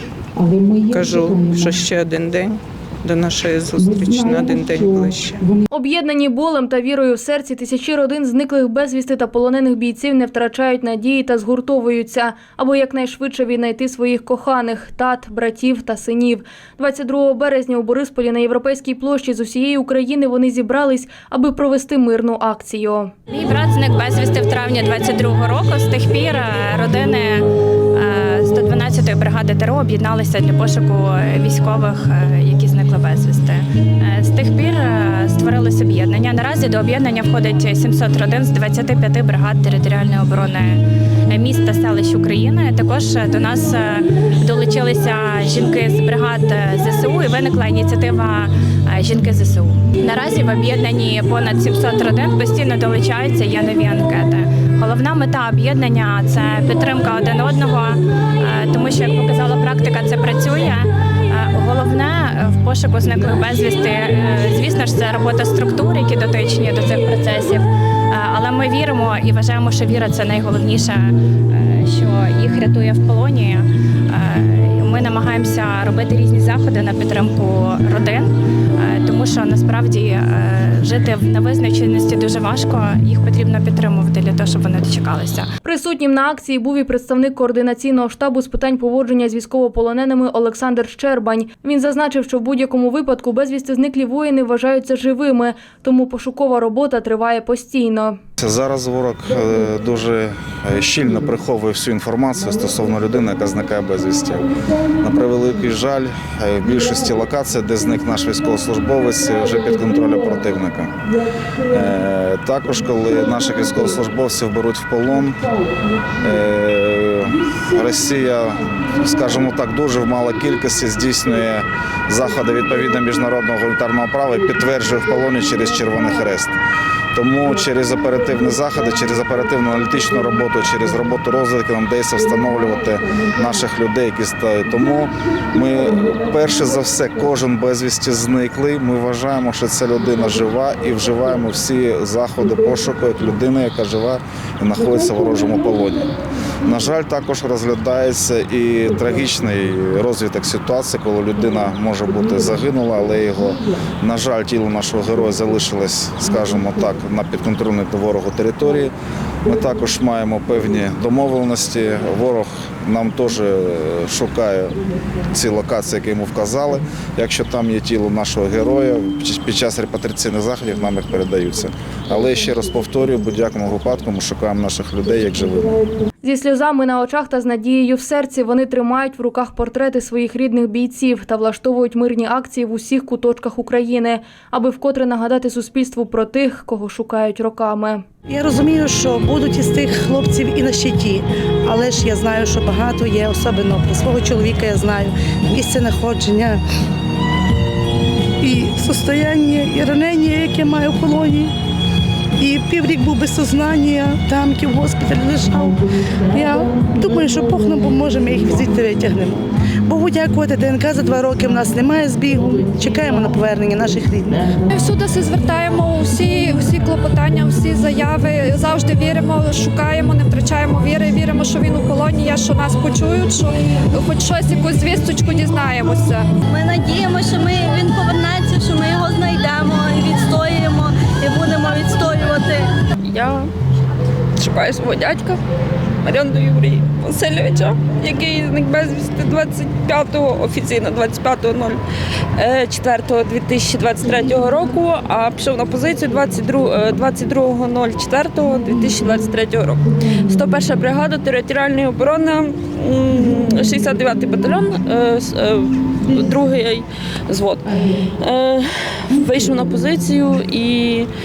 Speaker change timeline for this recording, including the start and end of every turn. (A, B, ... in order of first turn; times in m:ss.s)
0:00.4-0:05.6 A
0:05.7-0:23.1 B
0:23.3-1:25.5 C
1:25.6-1:38.2 B
1:38.4-1:51.0 D
1:51.7-1:55.4 D
1:56.2-2:06.6 D
2:07.1-2:26.1 D
2:26.6-2:38.9 D
2:39.4-2:44.8 D
2:45.3-2:55.7 D
2:56.2-3:08.0 B
3:08.3-3:16.6 E
3:18.4-3:21.5 E
3:22.4-3:34.5 E
3:34.7-3:46.3 F
3:46.5-3:52.6 G
3:53.0-3:53.5 H
3:54.4-3:55.4 H
3:56.0-4:01.8 H
4:02.4-4:21.1 H